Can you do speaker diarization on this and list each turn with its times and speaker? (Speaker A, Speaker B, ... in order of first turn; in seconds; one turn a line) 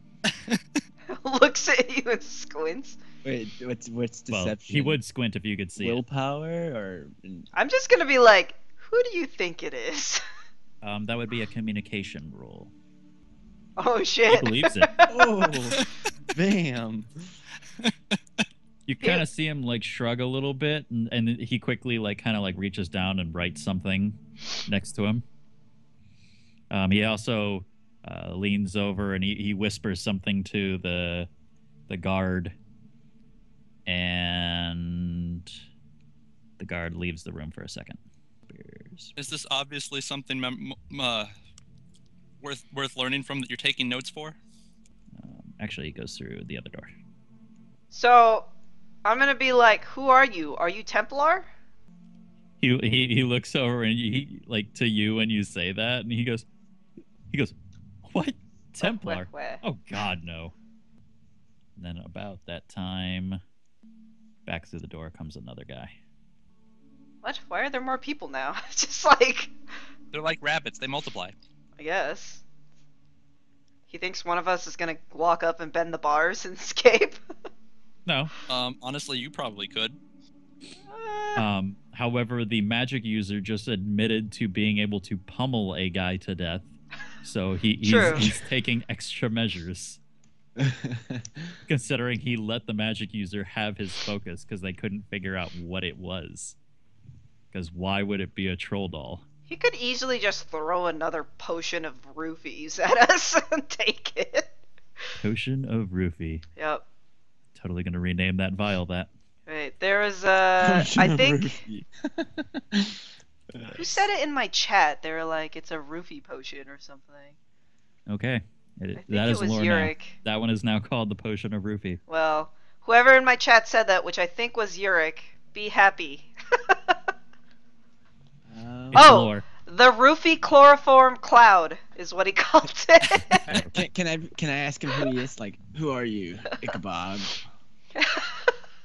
Speaker A: 0.3-0.6
Speaker B: 1.1-3.0
Speaker C: 3.2-5.0
Speaker D: 4.3-6.0
Speaker C: 5.8-7.5
Speaker B: 7.5-10.2
Speaker D: 10.8-12.7
Speaker B: 13.8-15.4
Speaker D: 14.3-14.9
Speaker C: 15.1-17.1
Speaker D: 18.9-25.2
Speaker D: 26.7-31.3
Speaker D: 31.9-32.6
Speaker D: 33.9-35.6
Speaker D: 36.6-39.1
Speaker A: 39.2-41.3
Speaker A: 42.4-44.4
Speaker D: 45.2-46.9
Speaker B: 47.9-48.5
Speaker B: 49.0-51.5
Speaker D: 52.6-56.5
Speaker D: 57.3-60.5
Speaker B: 58.8-59.6
Speaker D: 61.8-63.4
Speaker D: 64.5-66.0
Speaker B: 67.2-69.5
Speaker A: 70.1-71.3
Speaker B: 71.8-72.4
Speaker B: 73.9-77.2
Speaker D: 78.0-78.3
Speaker A: 78.5-80.0
Speaker B: 80.9-81.5
Speaker D: 81.3-86.7
Speaker D: 87.2-90.0
Speaker B: 87.8-88.3
Speaker C: 90.6-91.6
Speaker D: 91.7-96.6
Speaker D: 97.5-99.2
Speaker B: 99.5-104.5
Speaker D: 105.2-106.4
Speaker B: 106.6-106.8
Speaker D: 107.5-109.1
Speaker B: 109.5-111.6
Speaker C: 110.6-114.1
Speaker B: 113.7-117.4
Speaker D: 118.1-122.0
Speaker B: 119.0-120.2
Speaker B: 122.1-127.0
Speaker C: 128.5-129.1
Speaker D: 128.9-129.4
Speaker B: 128.9-133.5
Speaker D: 133.1-133.8
Speaker C: 133.5-137.5
Speaker B: 138.0-138.3